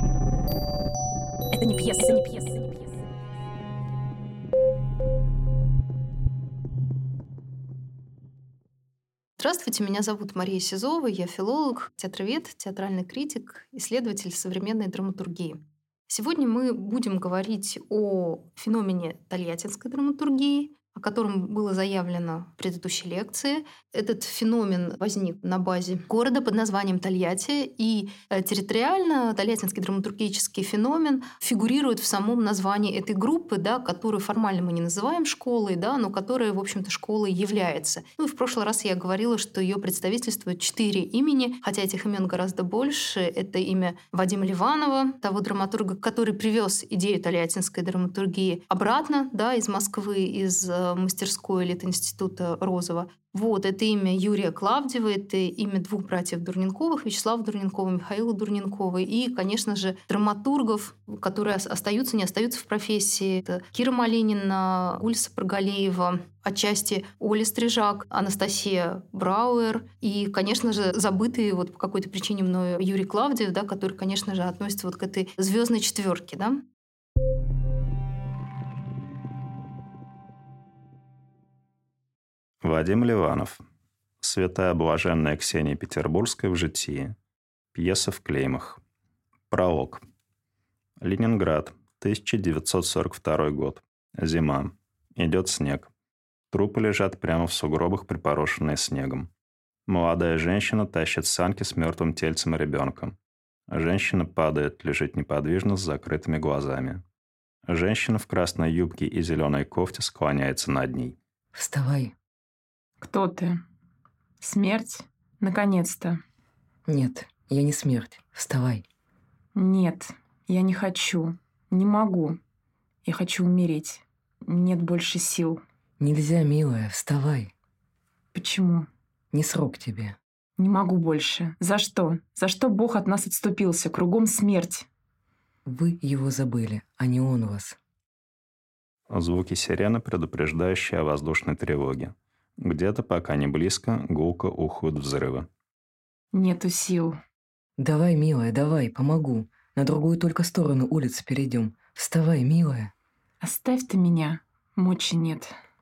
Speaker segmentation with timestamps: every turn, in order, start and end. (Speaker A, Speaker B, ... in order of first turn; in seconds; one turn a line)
Speaker A: 1.5-2.9
Speaker B: 9.4-76.6
Speaker C: 82.6-83.6
Speaker C: 84.2-87.2
Speaker C: 87.8-88.8
Speaker C: 89.5-90.0
Speaker C: 91.0-95.9
Speaker C: 96.5-99.3
Speaker C: 99.9-103.2
Speaker C: 103.7-107.0
Speaker C: 107.7-111.2
Speaker D: 111.5-112.1
Speaker A: 113.0-113.6
Speaker A: 114.4-116.2
Speaker D: 116.9-118.8
Speaker A: 119.5-122.4
Speaker A: 123.0-125.6
Speaker D: 126.0-127.5
Speaker A: 128.3-128.9
Speaker D: 129.3-130.2
Speaker A: 130.6-134.9
Speaker D: 135.7-137.8
Speaker C: 139.1-145.5
Speaker A: 146.3-147.2
Speaker D: 147.8-152.9
Speaker A: 153.4-155.6